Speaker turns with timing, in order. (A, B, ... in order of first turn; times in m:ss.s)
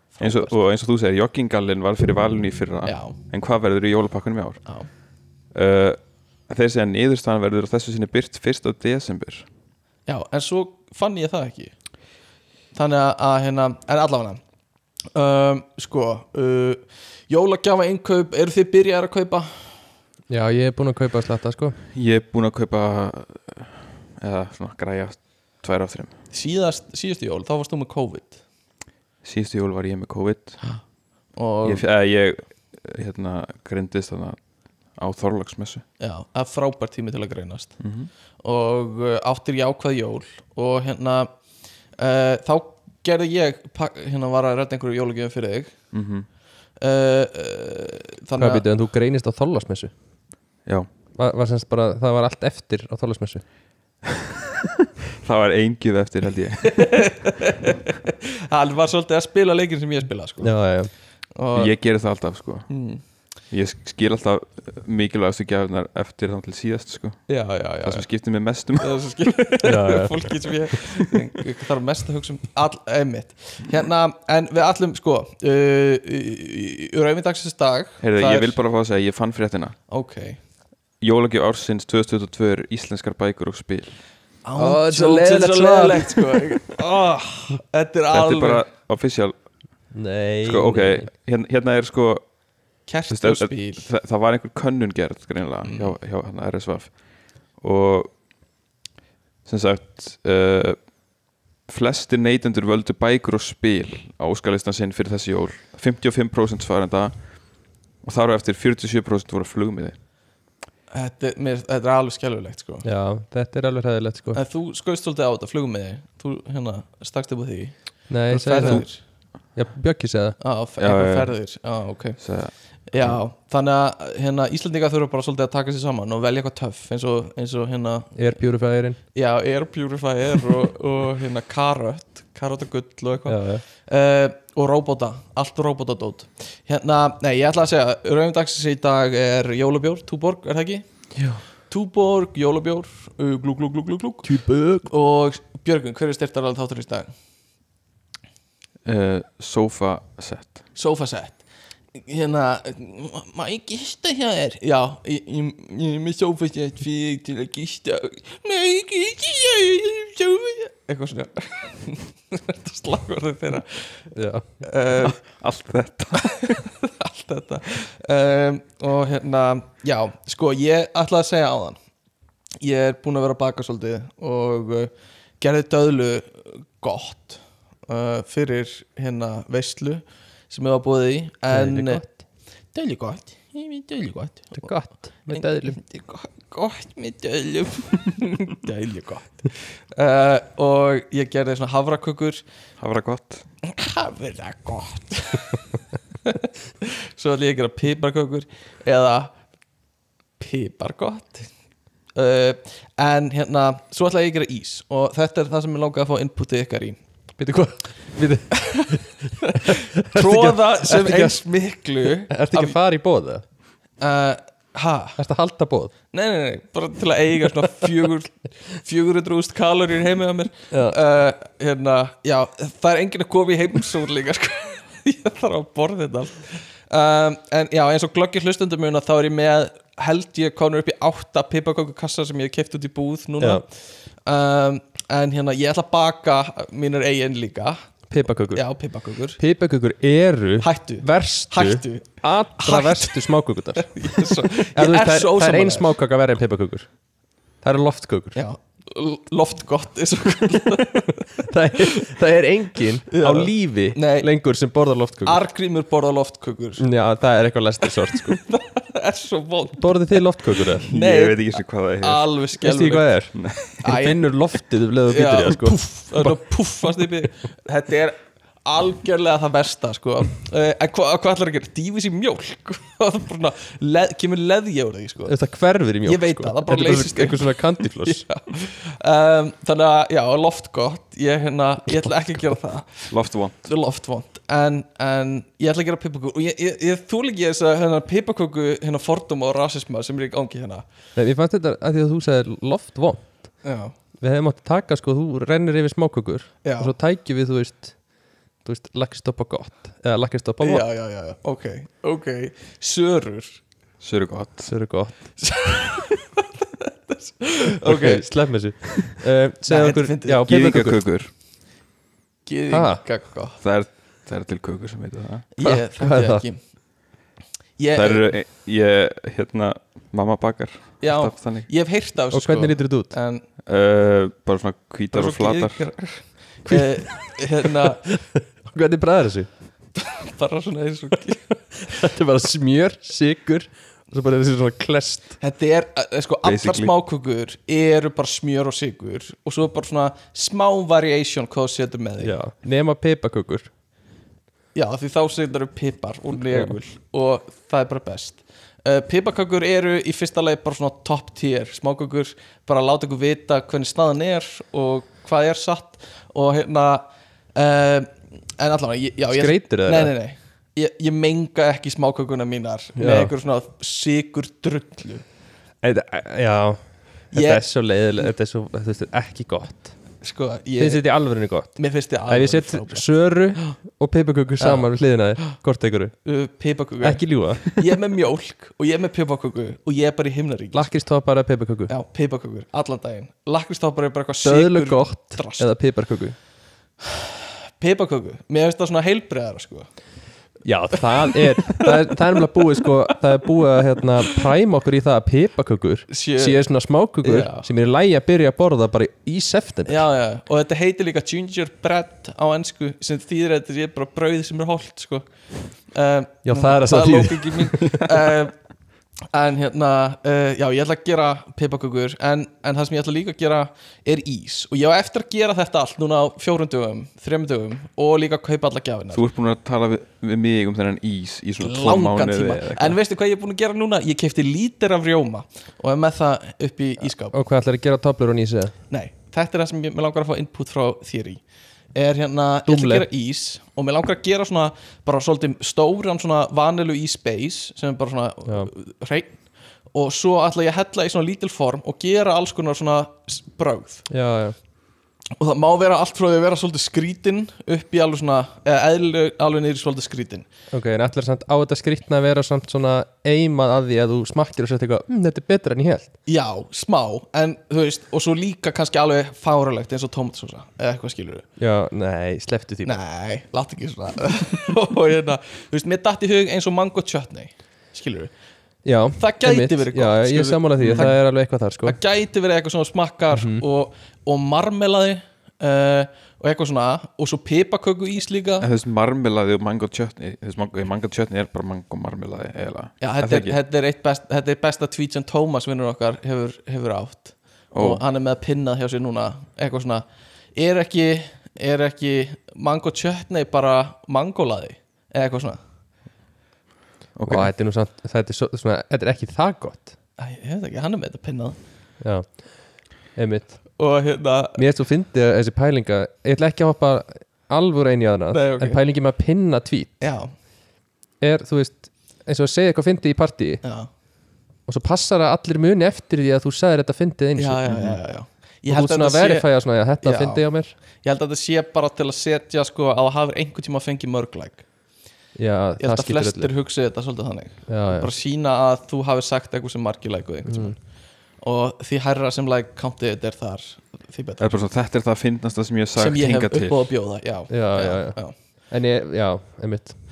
0:00.1-0:00.6 A
0:00.2-0:04.6 B
0:02.8-0:03.2 A
0:05.5-0:09.5 B
0:10.1-0:11.7 A
0:12.8-0:14.4 A
0:15.1-0:19.5 A
0:20.3-0:21.8 C
0:21.9-0:26.2 B
0:26.3-0:28.4 A
0:29.2-0:30.6 B
0:31.4-0:31.8 A
0:31.6-0:35.8 B
0:36.0-0:37.8 A
0:37.8-0:38.1 B
0:38.4-0:41.3 A
0:42.0-0:45.8 A
0:45.9-0:46.3 B
0:46.8-0:48.7 A
0:48.4-0:49.9 C
0:51.2-0:53.4 C
0:55.2-0:57.0 B
0:56.6-1:00.8 A
1:00.4-1:00.9 C
1:01.4-1:01.7 A
1:01.6-1:02.7 B
1:02.7-1:03.0 A
1:03.5-1:07.3 B
1:07.3-1:08.1 A
1:07.8-1:09.3 B
1:08.8-1:18.6 A
1:09.6-1:10.2 C
1:18.0-1:19.8 B
1:19.9-1:20.4 A
1:21.0-1:24.0 B
1:24.4-1:28.6 A
1:24.6-1:26.6 C
1:28.1-1:29.4 B
1:29.9-1:31.1 C
1:30.4-1:32.3 B
1:32.9-1:33.9 A
1:33.1-1:36.9 B
1:35.6-1:36.0 A
1:37.6-1:38.1 B
1:39.4-1:40.8 B
1:41.7-1:47.5 B
1:48.0-1:50.0 B
1:50.9-1:52.8 A
1:52.8-1:54.4 C
1:54.3-1:59.0 A
1:58.1-1:58.9 C
1:59.6-2:00.4 C
2:00.4-2:02.2 A
2:00.8-2:01.3 B
2:02.2-2:03.2 B
2:02.9-2:08.2 A
2:08.2-2:09.0 C
2:09.1-2:20.8 A
2:13.3-2:13.6 C
2:21.7-2:27.1 A
2:24.2-2:24.9 C
2:28.8-2:30.6 B
2:30.8-2:31.4 A
2:32.0-2:44.0 A
2:44.1-2:44.4 C
2:44.6-2:45.2 A
2:45.0-2:46.6 B
2:46.4-2:51.8 A
2:52.6-3:02.0 A
3:01.5-3:02.2 C
3:02.7-3:04.7 A
3:04.5-3:05.8 C
3:05.3-3:12.4 A
3:12.8-3:13.5 B
3:13.6-3:15.6 A
3:16.2-3:19.3 A
3:20.4-3:21.5 A
3:22.2-3:27.0 A
3:27.4-3:31.4 C
3:28.6-3:28.9 A
3:29.5-3:32.8 A
3:32.3-3:33.4 C
3:34.0-3:35.2 A
3:35.2-3:35.9 C
3:36.1-3:53.6 A
3:40.7-3:41.0 C
3:54.3-3:57.8 A
3:58.1-3:58.6 C
3:58.5-3:59.4 A
3:59.4-4:06.9 C
4:00.6-4:03.2 A
4:03.8-4:05.9 A
4:07.6-4:08.4 C
4:08.4-4:11.8 A
4:11.4-4:15.4 C
4:13.1-4:14.3 A
4:15.2-4:16.9 A
4:16.8-4:18.4 C
4:18.1-4:23.2 A
4:19.8-4:20.9 C
4:20.9-4:22.3 B
4:22.6-4:26.4 C
4:23.8-4:24.3 A
4:25.1-4:35.3 A
4:35.3-4:38.2 C
4:36.0-4:50.8 A
4:43.1-4:43.7 B
4:51.2-4:53.5 C
4:53.6-4:53.9 A
4:54.2-4:58.0 C
4:56.6-4:56.9 A
4:58.6-5:00.8 C
5:00.6-5:03.6 A
5:04.0-5:04.7 B
5:04.7-5:05.2 C
5:05.4-5:08.3 A
5:07.8-5:11.0 C
5:09.7-5:10.5 A
5:10.5-5:11.3 B
5:12.5-5:13.6 A
5:12.7-5:13.0 C
5:13.6-5:15.5 B
5:15.6-5:16.6 A
5:15.6-5:16.4 C
5:17.8-5:18.2 A
5:17.9-5:21.7 B
5:21.0-5:23.4 A
5:22.3-5:23.2 C
5:23.7-5:25.9 B
5:25.1-5:28.0 A
5:26.7-5:29.5 C
5:30.0-5:31.8 A
5:31.8-5:35.4 C
5:35.4-5:42.4 A
5:36.4-5:36.9 B
5:42.2-5:43.7 C
5:44.8-5:57.0 A
5:57.6-6:05.2 A
5:59.3-6:00.1 C
6:03.0-6:03.3 C
6:05.8-6:06.8 C
6:07.3-6:09.9 C
6:07.3-6:07.6 A
6:10.2-6:11.0 A
6:10.8-6:11.8 C
6:11.8-6:13.8 A
6:12.3-6:16.1 C
6:14.6-6:14.9 A
6:16.2-6:20.9 A
6:17.0-6:17.8 C
6:20.7-6:21.9 C
6:21.9-6:25.7 A
6:24.4-6:26.4 C
6:27.8-6:29.9 A
6:30.6-6:40.0 C
6:31.6-6:31.9 A
6:36.1-6:36.6 A
6:37.2-6:37.7 A
6:39.9-6:45.3 A
6:45.9-6:48.5 A
6:46.4-6:48.1 C
6:49.3-6:59.2 A
6:59.1-7:03.0 B
7:01.6-7:07.4 A
7:07.3-7:08.7 C
7:08.9-7:11.4 A
7:12.0-7:19.4 A
7:12.7-7:13.0 C
7:19.9-7:24.1 A
7:24.1-7:24.6 C
7:25.4-7:30.5 A
7:30.7-7:36.1 C
7:36.3-7:41.5 A
7:41.6-7:43.0 C
7:42.8-7:48.3 A
7:48.8-7:52.0 C
7:49.2-7:51.2 A
7:50.8-7:51.1 B
7:51.8-7:58.7 A
7:53.3-7:53.6 C
7:58.6-8:03.6 B
8:03.0-8:15.6 A
8:07.7-8:08.0 B
8:17.2-8:17.5 B
8:17.3-8:19.9 C
8:20.2-8:21.6 A
8:22.0-8:22.4 C
8:23.2-8:23.6 C
8:23.8-8:24.6 A
8:24.6-8:29.9 C
8:28.3-8:28.8 A
8:30.0-8:30.3 A
8:31.2-8:33.6 C
8:33.6-8:33.9 A
8:34.7-8:38.0 C
8:37.4-8:39.5 A
8:38.7-8:40.7 C
8:40.0-8:40.4 A
8:41.0-8:44.6 A
8:45.4-8:46.5 C
8:45.8-8:50.8 A
8:47.7-8:48.1 C
8:50.5-8:50.8 C
8:51.4-8:54.6 A
8:54.4-8:56.9 B
8:56.0-8:58.3 A
8:57.5-8:58.2 C
8:58.7-9:00.0 C